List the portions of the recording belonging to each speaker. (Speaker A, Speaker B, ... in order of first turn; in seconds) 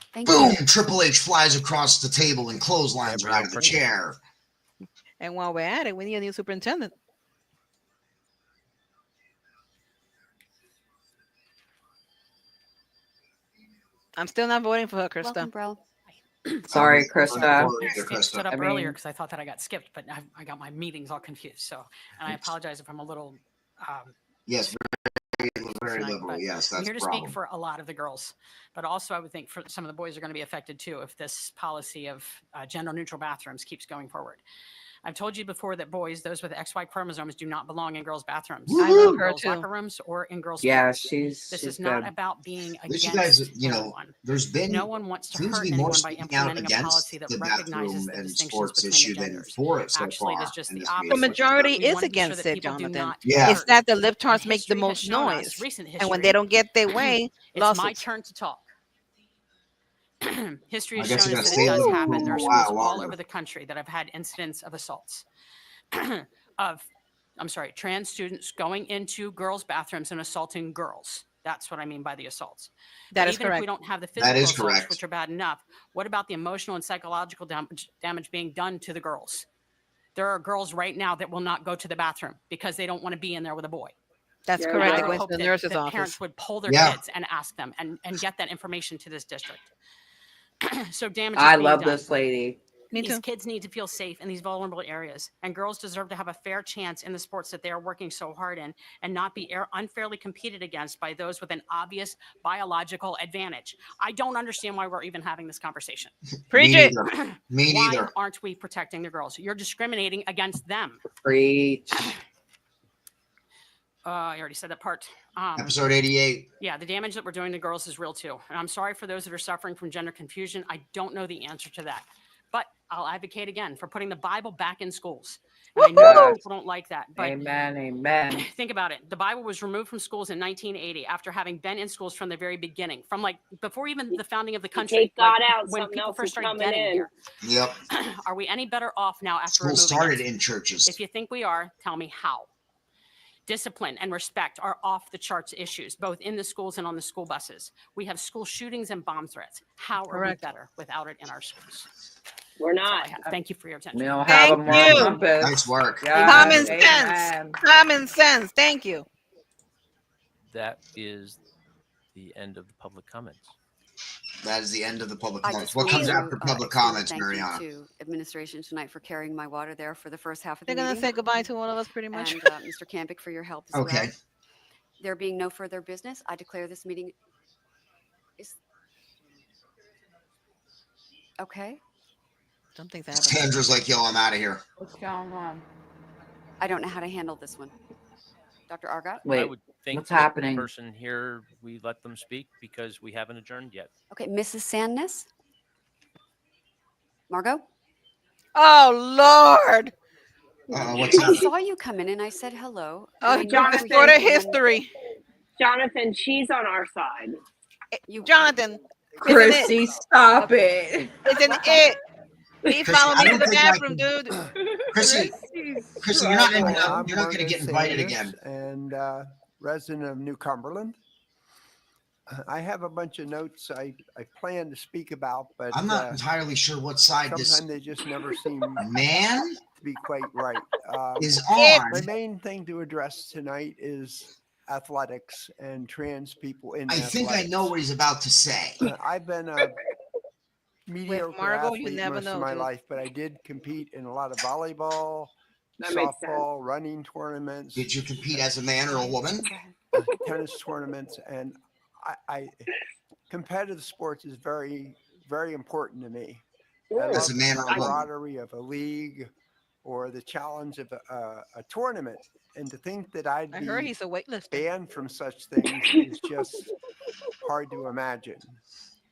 Speaker A: 0.1-0.6, 15.2-15.8, 165.4-171.2, 172.1-174.1, 175.0-177.1, 181.4-181.8, 186.6-187.7, 188.7-189.3, 194.1-195.3, 197.3-197.7, 201.1-204.7, 208.1-208.4, 248.9-249.7
Speaker B: 0.3-4.2, 16.7-18.5, 24.5-27.4, 38.7-39.2, 42.9-51.7, 53.2-53.6, 61.0-63.1, 74.2-75.0, 86.7-87.0, 106.5-108.1, 115.6-116.5, 137.4-137.8, 139.5-141.0, 154.7-156.7, 164.4-167.6, 173.7-174.1, 183.1-184.6, 200.7-201.5, 212.8-214.1, 214.9-215.4, 216.0-218.3, 225.7-227.6, 228.8-229.6, 231.2-232.1, 236.9-238.8, 247.8-249.5, 257.1-258.1
Speaker C: 3.0-3.8, 216.2-221.0, 222.3-226.2, 227.3-228.9, 229.7-231.4, 231.9-237.8, 238.8-239.8, 240.9-248.4, 249.9-252.7, 253.3-256.4, 257.0-259.3, 259.8-263.9, 264.5-266.7, 267.4-268.5
Speaker D: 5.2-6.9, 14.2-15.5, 38.8-39.7, 51.0-58.0, 61.4-62.2, 73.1-73.7, 84.5-86.2, 92.9-93.2, 106.5-107.0, 154.3-155.2, 156.2-159.1, 170.7-172.5, 182.8-183.6, 198.6-199.9, 203.2-204.9, 207.9-209.7, 211.2-212.0, 212.7-214.4, 231.6-231.8, 241.1-242.7, 263.5-264.6
Speaker E: 16.4-16.7, 17.8-24.1, 25.9-34.4, 35.0-44.1, 44.7-56.4, 56.9-58.7, 60.2-65.2, 65.9-66.9, 67.4-79.5, 80.2-84.0, 84.8-89.7, 90.6-92.1, 93.0-106.1, 107.0-111.0, 114.0-115.8, 116.6-127.4, 128.3-137.1, 137.9-140.3, 140.8-142.5, 143.5-151.9, 152.8-154.5
Speaker F: 16.7-17.9, 18.5-19.0, 40.6-42.1, 91.3-92.6, 111.2-112.1, 126.0-126.4, 127.2-128.5, 153.9-157.6, 184.8-185.7, 189.2-190.7, 209.2-211.2, 215.0-217.0
Speaker G: 84.6-85.2, 134.7-137.1, 152.6-153.3, 203.4-204.5, 205.6-207.4, 245.8-246.5, 256.9-257.9
Speaker H: 160.5-161.4, 162.1-163.5, 189.3-193.9